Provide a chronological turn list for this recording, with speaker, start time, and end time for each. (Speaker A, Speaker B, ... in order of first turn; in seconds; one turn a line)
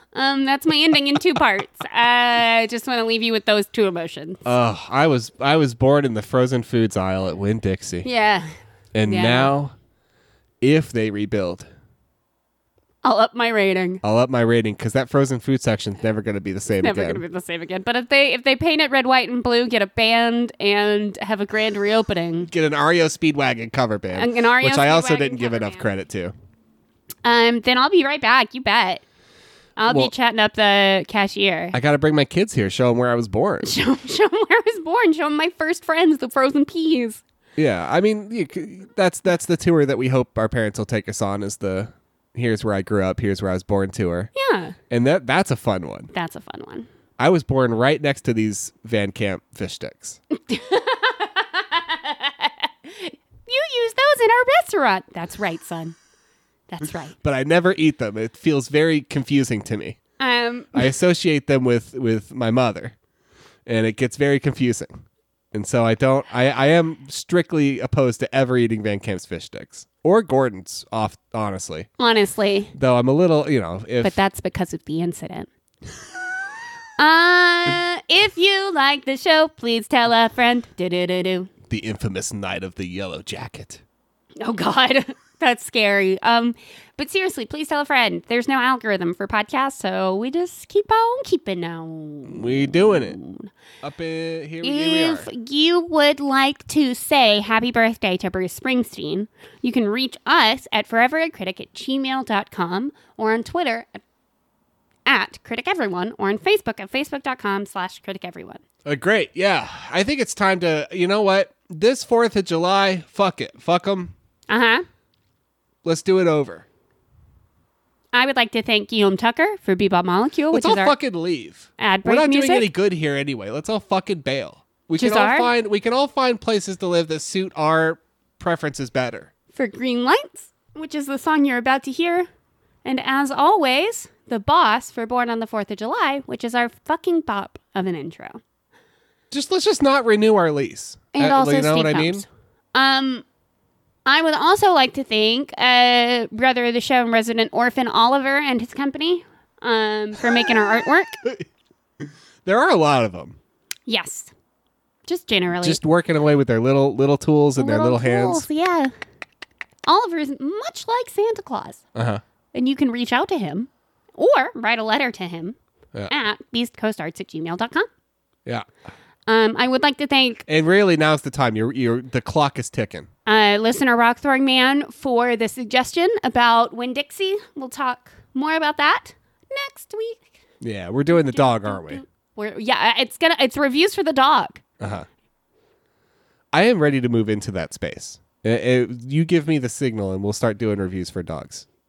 Speaker A: 0.1-4.4
Speaker B: 4.4-8.1
Speaker A: 8.0-8.5
Speaker B: 8.9-9.7
Speaker A: 9.0-9.5
Speaker B: 10.6-11.7
Speaker A: 13.0-14.0
Speaker B: 14.0-17.2
Speaker A: 16.8-22.5
Speaker B: 22.5-26.3
Speaker A: 24.1-25.9
Speaker A: 27.2-29.0
Speaker A: 29.8-31.8
Speaker B: 31.7-33.7
Speaker A: 33.6-37.2
Speaker B: 37.6-44.3
Speaker A: 44.3-44.8
Speaker B: 44.9-46.1
Speaker A: 46.1-46.9
Speaker B: 47.2-50.2
Speaker A: 50.4-56.0
Speaker A: 56.7-57.1
Speaker B: 57.2-60.0
Speaker A: 60.2-60.9
Speaker B: 60.7-62.9
Speaker B: 63.6-65.0
Speaker B: 65.5-71.9
Speaker A: 72.0-72.7
Speaker B: 72.7-74.2
Speaker A: 74.0-75.5
Speaker A: 77.0-81.5
Speaker B: 81.7-83.8
Speaker A: 84.4-93.5
Speaker B: 92.3-93.2
Speaker B: 93.8-95.3
Speaker A: 94.6-104.0
Speaker A: 105.0-108.6
Speaker B: 108.8-114.1
Speaker A: 114.5-114.8
Speaker B: 115.8-116.6
Speaker A: 118.1-120.9
Speaker B: 120.5-129.3
Speaker A: 121.8-122.7
Speaker A: 125.0-125.5
Speaker A: 129.5-132.3
Speaker A: 132.8-138.4
Speaker B: 139.3-142.2
Speaker A: 141.1-143.2
Speaker A: 144.1-151.2
Speaker B: 152.0-153.4
Speaker A: 153.9-154.3
Speaker A: 155.1-155.8
Speaker B: 155.6-158.4
Speaker A: 157.6-158.9
Speaker A: 159.9-161.8
Speaker B: 161.9-162.2
Speaker A: 162.5-165.6
Speaker A: 166.1-167.9
Speaker A: 169.3-170.4
Speaker B: 170.5-173.1
Speaker A: 173.2-180.4
Speaker B: 180.6-182.0
Speaker A: 181.1-184.6
Speaker B: 184.8-185.1
Speaker B: 186.5-191.6